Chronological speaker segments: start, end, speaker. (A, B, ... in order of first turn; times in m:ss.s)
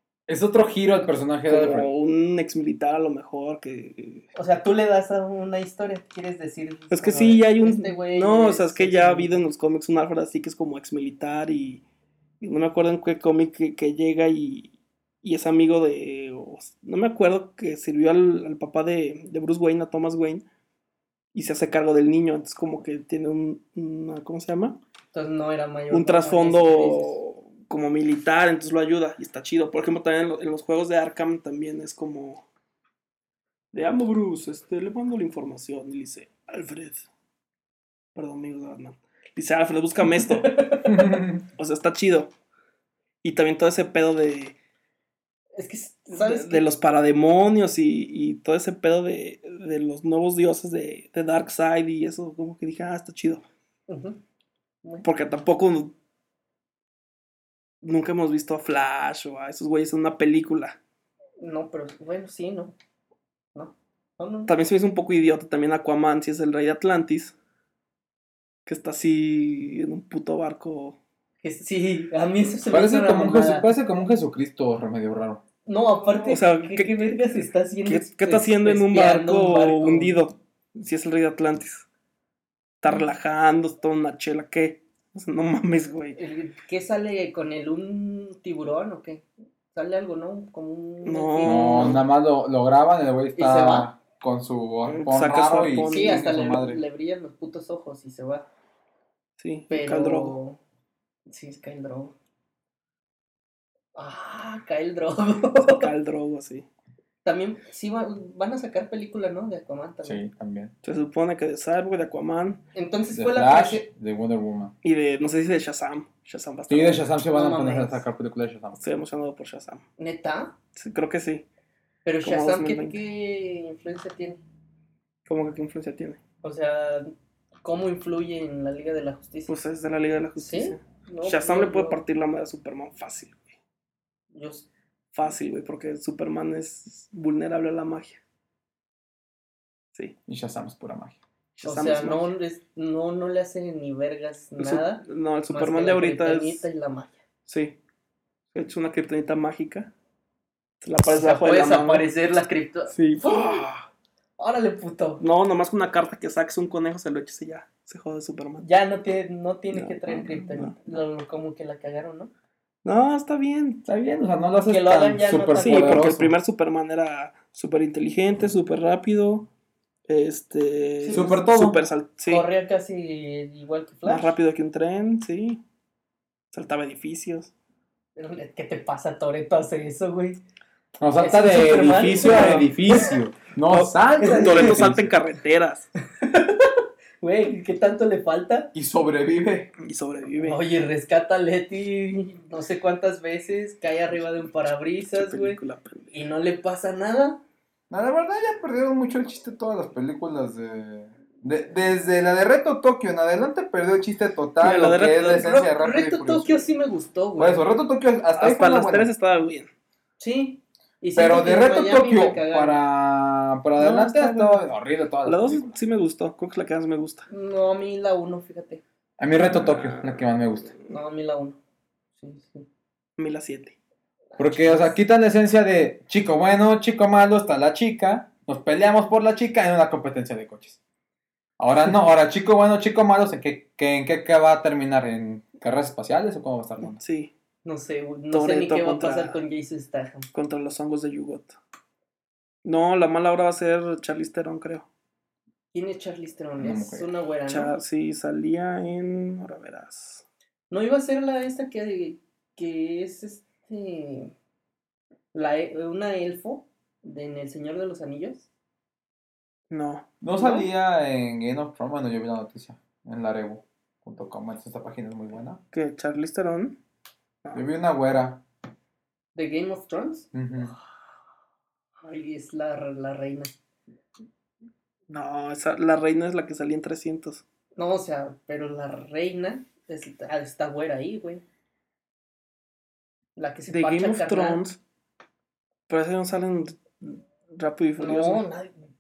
0:00.3-0:01.9 A
0:01.5-0:04.3 B
0:04.4-0:09.4 C
0:06.9-0:11.8 B
0:12.4-0:20.5 B
0:21.3-0:24.8 B
0:25.1-0:27.2 C
0:25.9-0:32.4 B
0:33.7-0:37.0 B
0:38.2-0:40.9 B
0:40.4-0:41.0 C
0:40.8-0:41.4 A
0:41.6-0:42.3 B
0:43.2-0:44.6 B
0:45.6-0:46.7 C
0:46.1-0:53.4 B
0:53.9-0:54.2 C
0:55.0-0:55.9 B
0:57.8-1:00.8 B
1:01.4-1:02.7 C
1:03.6-1:04.5 C
1:04.5-1:07.3 B
1:08.7-1:11.0 B
1:11.4-1:13.7 C
1:12.7-1:15.4 A
1:15.7-1:20.2 C
1:16.1-1:17.2 B
1:17.8-1:21.9 B
1:22.8-1:26.2 B
1:26.2-1:32.0 C
1:31.0-1:32.1 B
1:31.4-1:36.8 A
1:33.4-1:33.9 C
1:34.9-1:36.3 B
1:35.8-1:38.5 C
1:39.4-1:40.4 B
1:39.7-1:40.6 C
1:41.3-1:42.2 C
1:44.0-1:45.9 C
1:45.6-1:46.7 B
1:47.2-1:50.2 C
1:50.0-1:50.7 A
1:50.8-1:52.6 B
1:52.7-1:53.9 C
1:53.1-1:54.8 A
1:54.8-1:57.1 B
1:56.7-1:58.8 A
1:57.3-1:58.0 C
1:58.8-1:59.8 B
2:00.0-2:00.6 C
2:00.8-2:01.5 B
2:02.0-2:04.4 C
2:02.2-2:03.0 B
2:05.3-2:06.2 B
2:06.4-2:07.1 C
2:07.6-2:09.6 C
2:09.5-2:13.5 B
2:10.4-2:12.0 C
2:14.3-2:14.7 C
2:15.1-2:18.2 B
2:20.3-2:21.2 A
2:21.6-2:22.3 B
2:21.6-2:27.2 C
2:24.6-2:26.6 B
2:27.5-2:27.8 B
2:28.5-2:29.9 B
2:30.8-2:32.1 B
2:31.1-2:33.7 C
2:32.9-2:33.8 B
2:34.4-2:35.2 C
2:35.2-2:38.7 B
2:38.6-2:42.3 C
2:39.7-2:40.8 B
2:42.8-2:43.8 B
2:43.8-2:46.3 A
2:44.6-2:46.1 C
2:45.6-2:49.5 B
2:50.1-2:52.5 B
2:51.0-2:51.4 C
2:51.1-2:51.9 A
2:52.3-2:54.3 C
2:54.0-2:55.6 B
2:56.5-2:57.5 B
2:58.2-3:00.4 C
3:01.0-3:05.1 A
3:01.2-3:02.8 C
3:02.2-3:02.7 B
3:03.7-3:05.9 B
3:04.2-3:04.8 C
3:06.2-3:08.7 C
3:08.7-3:09.7 A
3:09.8-3:10.6 B
3:10.4-3:15.6 C
3:15.1-3:16.1 B
3:16.1-3:17.4 C
3:17.9-3:26.6 A
3:24.6-3:25.5 B
3:25.1-3:27.7 C
3:27.4-3:29.1 A
3:28.4-3:29.7 B
3:30.2-3:32.8 C
3:31.2-3:35.7 A
3:33.8-3:34.6 B
3:33.8-3:34.1 C
3:35.2-3:37.3 B
3:37.3-3:38.8 C
3:39.2-3:40.7 A
3:39.3-3:40.9 B
3:40.9-3:41.6 C
3:42.2-3:42.7 C
3:43.2-3:43.8 B
3:44.3-3:45.0 C
3:44.4-3:50.8 A
3:51.6-3:57.0 A
3:57.0-3:57.3 B
3:57.6-4:00.3 C
3:58.3-3:59.4 B
4:00.3-4:01.6 B
4:02.6-4:04.9 B
4:05.7-4:07.7 C
4:06.6-4:07.1 A
4:07.5-4:10.2 B
4:10.7-4:14.3 C
4:15.3-4:18.5 C
4:19.7-4:20.1 B
4:20.2-4:25.6 A
4:20.4-4:20.6 C
4:25.7-4:26.8 B
4:27.5-4:28.4 A
4:29.4-4:30.3 C
4:30.3-4:30.7 A
4:32.0-4:33.5 C
4:35.1-4:37.4 B
4:37.8-4:41.4 C
4:43.4-4:44.6 C
4:43.7-4:44.8 B
4:45.9-4:48.5 B
4:48.0-4:48.8 C